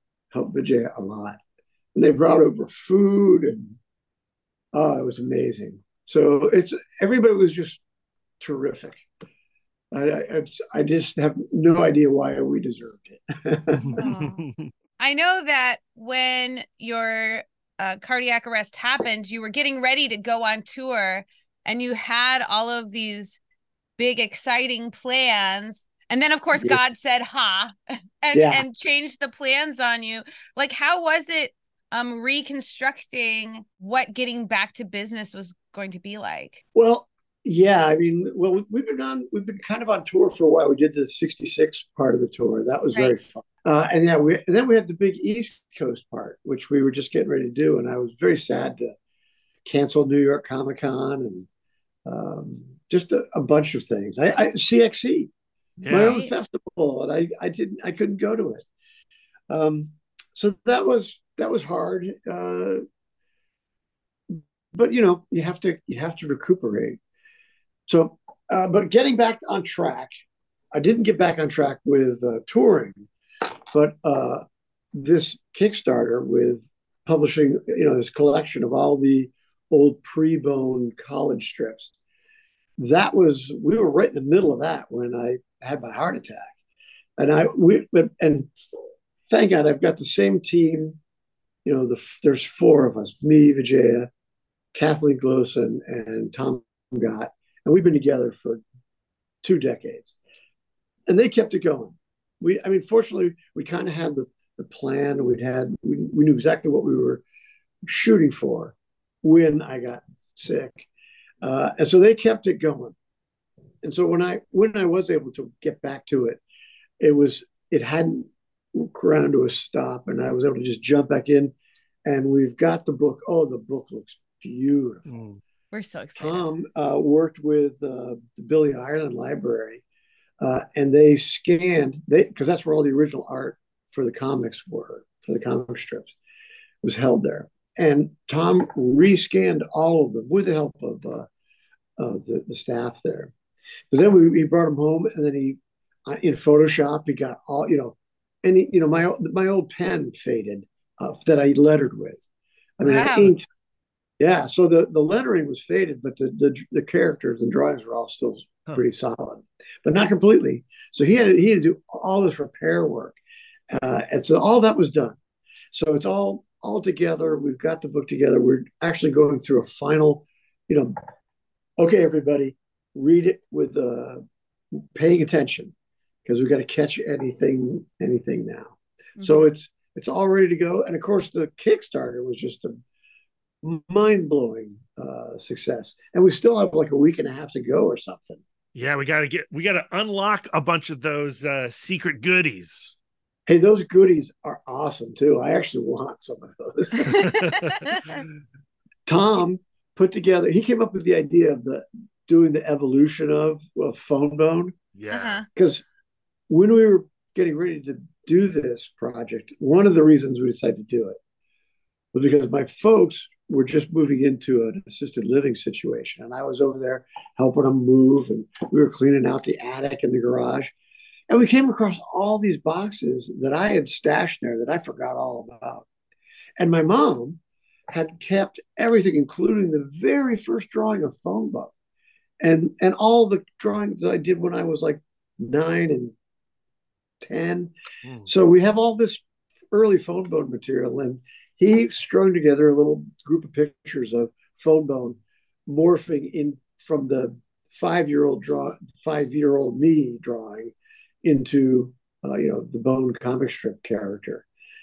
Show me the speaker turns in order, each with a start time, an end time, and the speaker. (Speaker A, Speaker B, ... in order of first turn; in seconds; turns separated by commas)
Speaker A: 0.3-1.4, Speaker A: 1.9-3.8, Speaker A: 4.7-7.8, Speaker A: 8.4-9.0, Speaker A: 9.9-14.0, Speaker B: 13.7-14.7, Speaker C: 13.9-14.4, Speaker C: 15.0-23.4, Speaker C: 24.0-36.6, Speaker A: 28.3-28.6, Speaker A: 36.7-48.9, Speaker A: 49.6-51.5, Speaker A: 52.0-55.3, Speaker B: 55.8-56.2, Speaker A: 55.9-58.6, Speaker C: 56.0-56.3, Speaker A: 59.5-62.8, Speaker A: 64.3-67.0, Speaker A: 67.9-70.1, Speaker A: 70.7-73.1, Speaker A: 73.7-74.4, Speaker A: 74.9-81.9, Speaker A: 82.8-86.5, Speaker A: 87.2-88.5, Speaker A: 89.3-91.0, Speaker A: 91.6-94.1, Speaker A: 94.7-98.6, Speaker A: 99.4-100.1, Speaker A: 101.1-107.2, Speaker A: 107.8-110.9, Speaker A: 111.4-113.0, Speaker A: 113.8-116.4, Speaker A: 117.0-121.5, Speaker A: 122.0-125.1, Speaker B: 125.1-125.4, Speaker C: 125.7-126.5, Speaker A: 126.2-129.8, Speaker A: 130.4-136.1, Speaker A: 136.8-141.3, Speaker A: 142.0-143.3, Speaker A: 143.9-152.2, Speaker A: 152.8-153.4, Speaker C: 152.8-153.3, Speaker A: 154.2-163.2, Speaker A: 163.7-165.2, Speaker A: 165.7-170.9, Speaker A: 171.8-174.2, Speaker A: 174.9-175.7, Speaker A: 176.2-182.8, Speaker C: 179.2-179.4, Speaker A: 183.6-188.4, Speaker B: 188.7-192.9, Speaker A: 193.5-197.3, Speaker C: 197.0-198.2, Speaker B: 197.2-197.7, Speaker A: 199.1-204.7, Speaker B: 204.9-205.4, Speaker C: 205.1-205.5, Speaker A: 205.5-205.8, Speaker A: 206.5-211.2, Speaker A: 212.1-220.7, Speaker A: 221.3-225.9, Speaker A: 226.6-227.4, Speaker A: 227.9-231.7, Speaker A: 232.4-236.1, Speaker A: 237.2-237.7, Speaker B: 238.0-238.3, Speaker A: 238.2-254.5